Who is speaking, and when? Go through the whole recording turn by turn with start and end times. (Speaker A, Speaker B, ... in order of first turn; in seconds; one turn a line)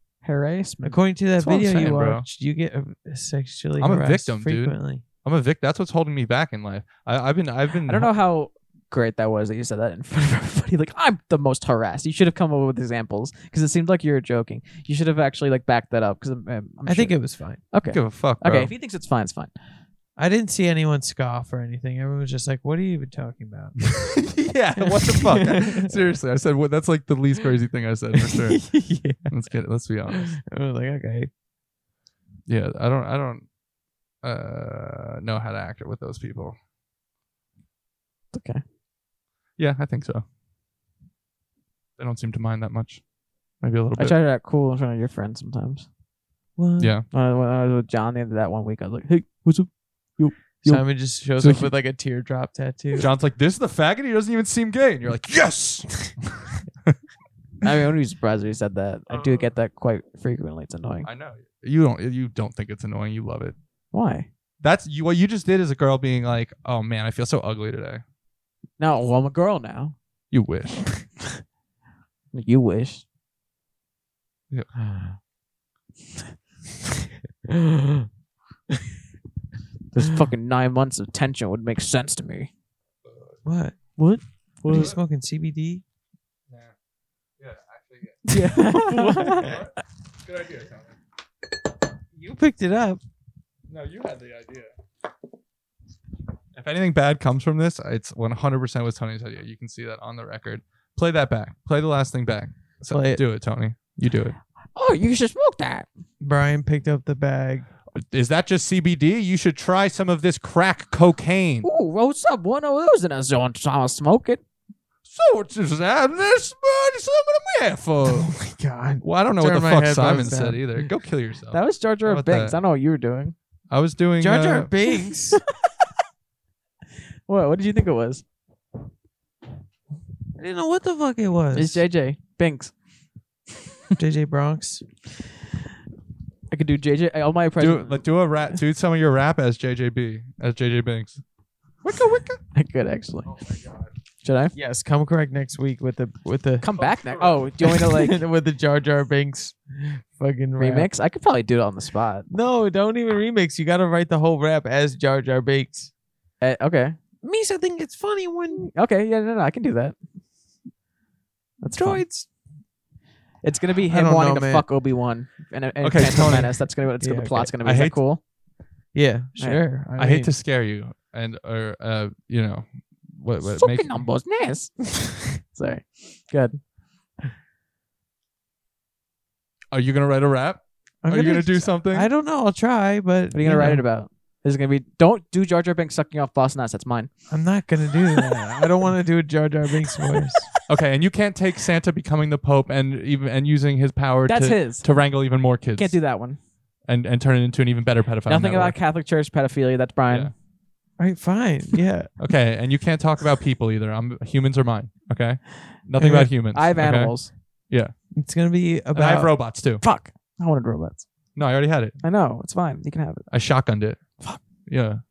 Speaker A: 0.2-1.0
Speaker B: 0.8-5.0
Speaker C: 1.4-2.2
Speaker C: 3.8-8.1
Speaker A: 7.8-19.5
Speaker B: 16.9-17.6
Speaker C: 17.8-18.7
Speaker B: 20.2-24.2
Speaker C: 23.9-30.3
Speaker B: 24.8-25.9
Speaker B: 28.2-29.3
Speaker B: 30.1-31.3
Speaker C: 32.5-33.5
Speaker C: 34.2-36.6
Speaker A: 38.3-38.6
Speaker C: 39.6-40.2
Speaker C: 42.0-43.0
Speaker C: 43.6-44.1
Speaker A: 44.0-45.9
Speaker B: 46.6-46.9
Speaker C: 46.8-47.0
Speaker A: 47.1-50.8
Speaker B: 50.6-53.1
Speaker C: 51.4-51.7
Speaker C: 53.0-56.9
Speaker A: 57.6-61.1
Speaker C: 59.1-59.4
Speaker C: 61.0-63.5
Speaker A: 63.9-64.3
Speaker C: 64.6-68.0
Speaker A: 68.8-69.9
Speaker C: 70.3-70.9
Speaker A: 72.3-73.0
Speaker B: 74.8-75.1
Speaker B: 77.5-78.1
Speaker A: 79.9-82.5
Speaker C: 83.0-83.4
Speaker B: 83.4-85.8
Speaker A: 84.0-84.9
Speaker C: 87.4-88.3
Speaker A: 88.3-89.5
Speaker B: 88.3-89.5
Speaker C: 89.2-91.0
Speaker B: 92.1-93.0
Speaker C: 93.7-94.7
Speaker C: 96.5-104.3
Speaker B: 102.9-103.2
Speaker A: 104.7-105.9
Speaker B: 106.2-107.7
Speaker C: 108.0-111.7
Speaker A: 111.6-114.4
Speaker C: 115.1-118.3
Speaker B: 118.4-120.6
Speaker C: 119.0-122.5
Speaker A: 121.5-123.3
Speaker C: 123.7-124.7
Speaker B: 124.2-125.4
Speaker A: 125.3-125.7
Speaker A: 127.3-128.2
Speaker B: 130.3-131.8
Speaker A: 131.5-132.7
Speaker B: 133.9-134.8
Speaker A: 136.5-138.0
Speaker C: 137.6-141.2
Speaker C: 141.8-142.3
Speaker A: 141.9-143.3
Speaker A: 144.2-144.5
Speaker B: 144.5-146.8
Speaker A: 146.6-148.2
Speaker C: 147.1-147.4
Speaker B: 147.6-150.9
Speaker A: 150.6-152.3
Speaker B: 152.3-155.9
Speaker A: 156.4-157.0
Speaker B: 157.2-158.7
Speaker A: 158.7-159.9
Speaker B: 161.6-162.2
Speaker A: 161.6-162.2
Speaker A: 163.4-168.2
Speaker B: 163.9-164.7
Speaker C: 165.8-166.5
Speaker B: 167.0-167.5
Speaker C: 167.6-168.0
Speaker B: 168.9-170.3
Speaker A: 169.4-169.6
Speaker C: 170.0-174.0
Speaker A: 173.4-176.6
Speaker C: 179.7-182.1
Speaker B: 181.0-183.8
Speaker A: 183.3-187.1
Speaker B: 187.3-190.5
Speaker C: 190.7-196.0
Speaker A: 194.2-196.4
Speaker C: 196.8-198.8
Speaker A: 198.2-200.3
Speaker B: 201.0-202.1
Speaker C: 202.2-207.2
Speaker B: 206.0-206.3
Speaker A: 206.5-207.3
Speaker C: 207.7-207.9
Speaker B: 208.2-209.3
Speaker C: 208.9-209.8
Speaker A: 209.8-211.1
Speaker C: 211.3-212.0
Speaker A: 212.0-213.3
Speaker C: 213.3-214.0
Speaker C: 214.7-215.0